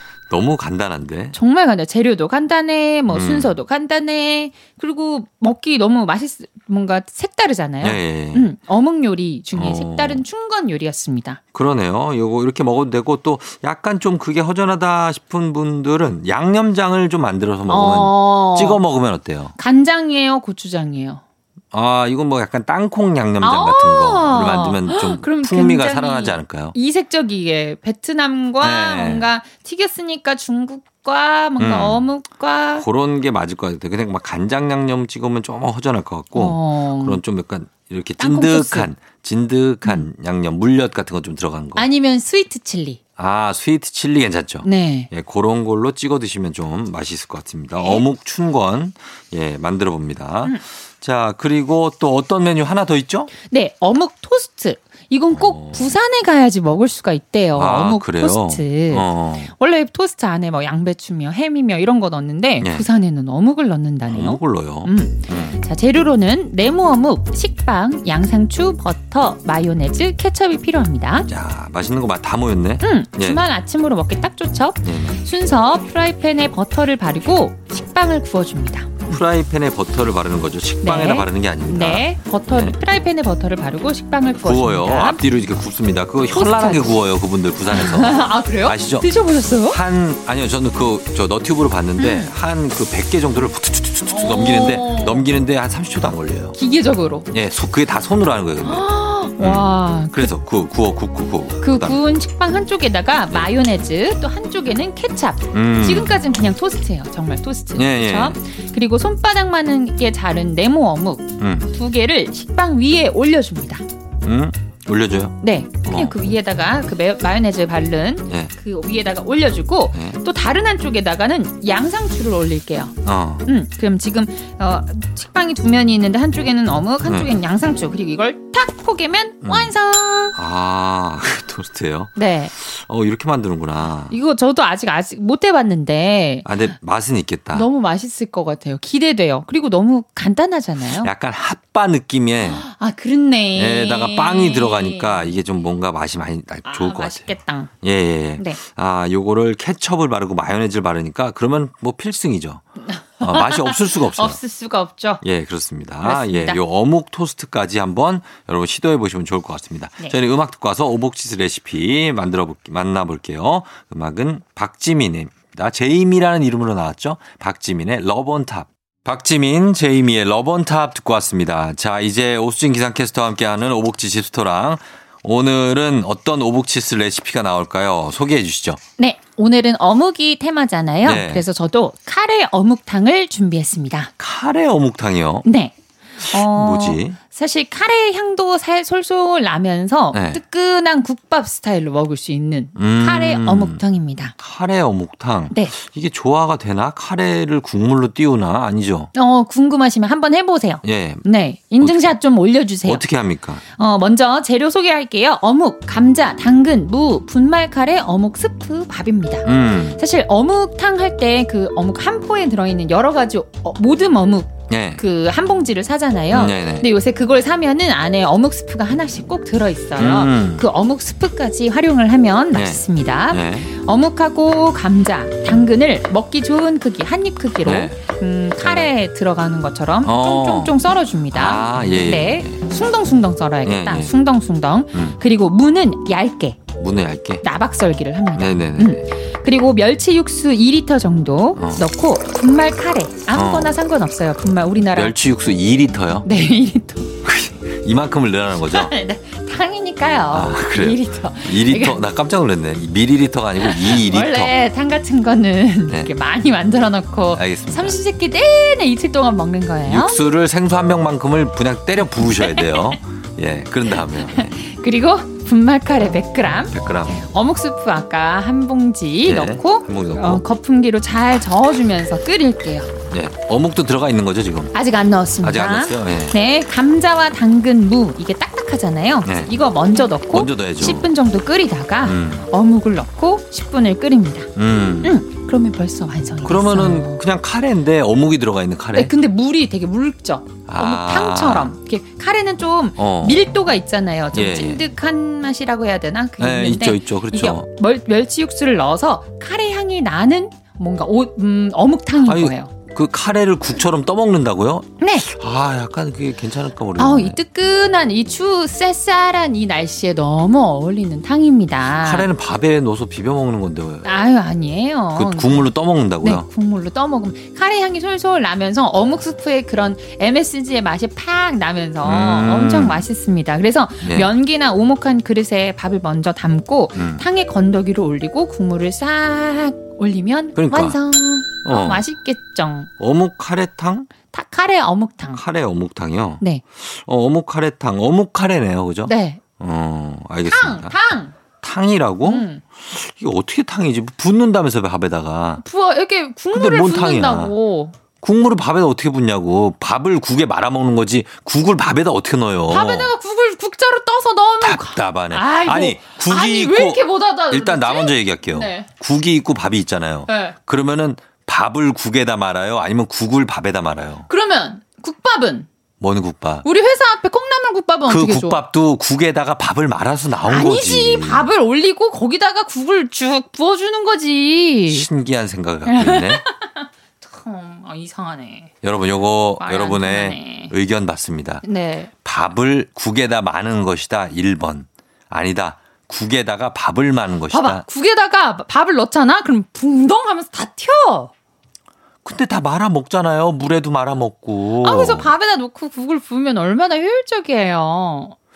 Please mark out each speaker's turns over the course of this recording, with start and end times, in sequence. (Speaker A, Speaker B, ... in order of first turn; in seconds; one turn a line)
Speaker A: 0.3-1.4
Speaker B: 1.3-11.4
Speaker A: 3.1-3.5
Speaker A: 7.8-8.5
Speaker A: 9.5-10.2
Speaker A: 11.5-19.5
Speaker B: 17.7-18.8
Speaker B: 19.6-21.2
Speaker A: 21.7-26.7
Speaker B: 23.4-32.9
Speaker A: 28.6-29.3
Speaker A: 31.6-32.0
Speaker A: 32.8-41.9
Speaker B: 36.3-37.2
Speaker B: 38.2-38.9
Speaker B: 41.8-43.0
Speaker A: 43.2-53.3
Speaker B: 44.6-45.1
Speaker B: 47.8-48.0
Speaker B: 53.4-71.3
Speaker A: 55.3-55.9
Speaker A: 57.5-59.5
Speaker A: 62.6-62.9
Speaker A: 64.1-65.6
Speaker A: 71.3-73.4
Speaker B: 72.8-79.2
Speaker A: 74.8-75.2
Speaker A: 79.1-82.8
Speaker B: 80.8-85.2
Speaker A: 84.4-96.6
Speaker B: 86.3-87.0
Speaker B: 87.7-89.8
Speaker B: 92.0-92.3
Speaker B: 94.1-95.2
Speaker B: 96.5-97.3
Speaker A: 97.3-98.8
Speaker B: 98.6-100.3
Speaker A: 99.4-102.0
Speaker B: 101.6-113.8
Speaker A: 105.5-106.1
Speaker A: 107.7-108.4
Speaker A: 111.4-111.7
Speaker A: 114.2-116.1
Speaker B: 115.4-130.3
Speaker A: 123.0-123.5
Speaker A: 127.0-127.3
Speaker A: 129.4-129.7
Speaker A: 130.3-134.2
Speaker B: 132.2-132.5
Speaker B: 134.1-136.5
Speaker A: 136.4-137.7
Speaker B: 137.5-141.1
Speaker A: 141.0-142.7
Speaker B: 142.4-145.4
Speaker A: 143.5-152.6
Speaker B: 146.6-147.7
Speaker B: 152.8-155.2
Speaker A: 153.2-154.4
Speaker A: 155.2-178.8
Speaker B: 156.0-156.6
Speaker B: 179.0-184.1
Speaker A: 181.0-181.4
Speaker A: 184.2-185.4
Speaker B: 185.4-194.3
Speaker A: 186.2-187.2
Speaker A: 190.1-190.4
Speaker A: 192.8-193.8
Speaker A: 194.4-199.1
Speaker B: 199.1-203.1
Speaker A: 200.8-201.2
Speaker A: 201.8-202.2
Speaker A: 202.8-203.6
Speaker B: 203.7-236.6
Speaker A: 209.4-210.0
Speaker A: 214.7-215.0
Speaker A: 216.3-216.9
Speaker A: 220.0-220.6
Speaker A: 222.5-223.7
Speaker A: 227.6-228.0
Speaker A: 228.6-228.9
Speaker A: 230.0-230.8
Speaker A: 231.3-232.6
Speaker A: 233.6-234.1
Speaker A: 234.9-235.2
Speaker A: 236.8-237.4
Speaker B: 237.4-245.1
Speaker A: 238.3-239.1
Speaker A: 241.5-241.8
Speaker A: 243.3-243.7
Speaker A: 244.9-246.3
Speaker B: 246.2-247.1
Speaker A: 247.2-248.9
Speaker B: 248.7-252.0
Speaker A: 250.3-254.5
Speaker B: 253.6-260.2
Speaker A: 257.3-258.0
Speaker A: 259.8-264.6
Speaker B: 262.3-262.9
Speaker B: 263.9-272.9
Speaker A: 266.7-267.2
Speaker A: 269.2-270.4
Speaker A: 273.1-274.7
Speaker B: 274.7-284.5
Speaker A: 275.4-276.4
Speaker A: 279.2-279.5
Speaker A: 280.1-281.1
Speaker A: 282.0-282.5
Speaker A: 284.6-285.2
Speaker B: 285.0-287.2
Speaker A: 286.4-289.1
Speaker B: 288.9-302.7
Speaker A: 290.7-291.7
Speaker A: 293.0-293.4
Speaker A: 294.3-294.8
Speaker A: 296.4-297.7
Speaker A: 302.2-307.4
Speaker B: 305.0-305.3
Speaker B: 307.0-312.3
Speaker A: 312.0-314.1
Speaker B: 314.0-315.7
Speaker A: 315.1-316.5
Speaker B: 316.2-332.9
Speaker A: 322.0-323.0
Speaker A: 324.0-324.3
Speaker A: 326.9-327.2
Speaker A: 330.5-331.0
Speaker A: 331.6-332.0
Speaker A: 333.0-334.1
Speaker B: 334.3-335.4
Speaker A: 335.3-340.9
Speaker B: 339.1-339.4
Speaker B: 340.4-341.3
Speaker A: 341.6-345.6
Speaker B: 342.2-342.6
Speaker B: 345.6-347.9
Speaker A: 346.5-347.5
Speaker A: 348.2-353.1
Speaker B: 352.7-358.9
Speaker A: 354.6-364.3
Speaker B: 360.3-360.5
Speaker B: 364.3-365.7
Speaker A: 366.0-366.6
Speaker B: 366.6-368.6
Speaker A: 368.1-371.5
Speaker B: 370.4-375.1
Speaker A: 374.9-376.4
Speaker B: 375.9-378.7
Speaker A: 378.8-381.6
Speaker B: 379.6-380.7
Speaker B: 381.6-382.1
Speaker A: 382.2-387.8
Speaker B: 387.5-391.3
Speaker A: 392.2-395.3
Speaker B: 394.8-398.3